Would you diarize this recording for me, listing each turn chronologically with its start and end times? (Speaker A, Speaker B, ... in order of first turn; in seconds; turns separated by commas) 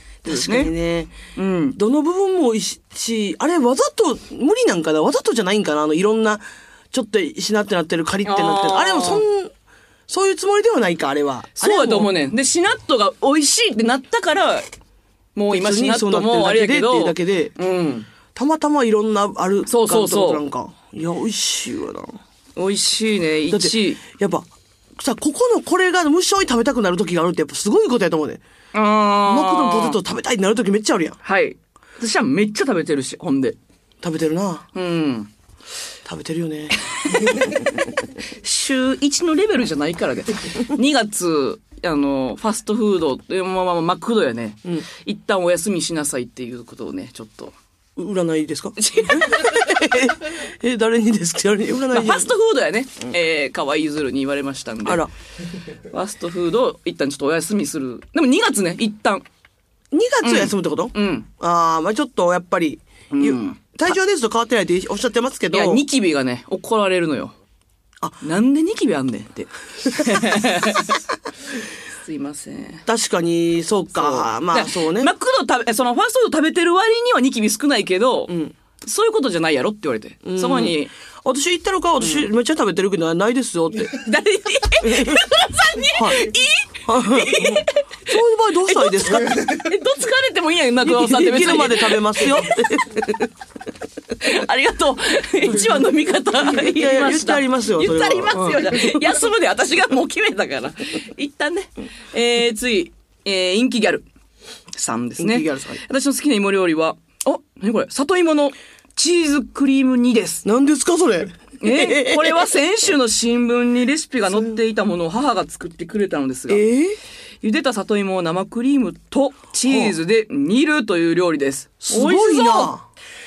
Speaker A: 0.2-1.1, Speaker B: 0.3-0.7, Speaker B: 1.4-1.8, Speaker A: 1.8-9.5, Speaker B: 8.2-9.2, Speaker A: 10.1-12.1, Speaker B: 11.6-14.7, Speaker B: 15.3-18.1, Speaker A: 15.5-17.5, Speaker A: 18.4-22.2, Speaker B: 19.7-20.4, Speaker B: 22.6-24.0, Speaker A: 23.5-28.4, Speaker B: 28.7-30.0, Speaker A: 29.2-31.2, Speaker B: 31.2-33.6, Speaker A: 34.0-34.7, Speaker B: 34.8-35.3, Speaker A: 36.0-37.8, Speaker B: 36.9-37.7, Speaker B: 38.4-47.5, Speaker A: 48.0-52.3, Speaker B: 48.8-49.8, Speaker B: 51.9-55.0, Speaker A: 54.9-55.1, Speaker B: 55.9-59.2, Speaker A: 59.9-65.8, Speaker B: 60.2-61.3, Speaker B: 63.1-63.6, Speaker B: 65.5-67.3, Speaker B: 68.2-71.0, Speaker B: 72.0-72.8, Speaker A: 72.9-75.1, Speaker B: 74.0-80.9, Speaker A: 80.2-84.0, Speaker B: 83.9-92.8, Speaker A: 84.8-85.3, Speaker A: 85.9-86.3, Speaker A: 86.8-89.6, Speaker A: 90.8-93.3, Speaker B: 94.2-104.1, Speaker A: 96.6-99.0, Speaker B: 104.8-110.5, Speaker A: 105.2-105.8, Speaker A: 110.4-112.5, Speaker B: 111.6-116.6, Speaker A: 116.5-117.0, Speaker B: 117.4-122.7, Speaker A: 119.7-120.0, Speaker A: 121.8-122.8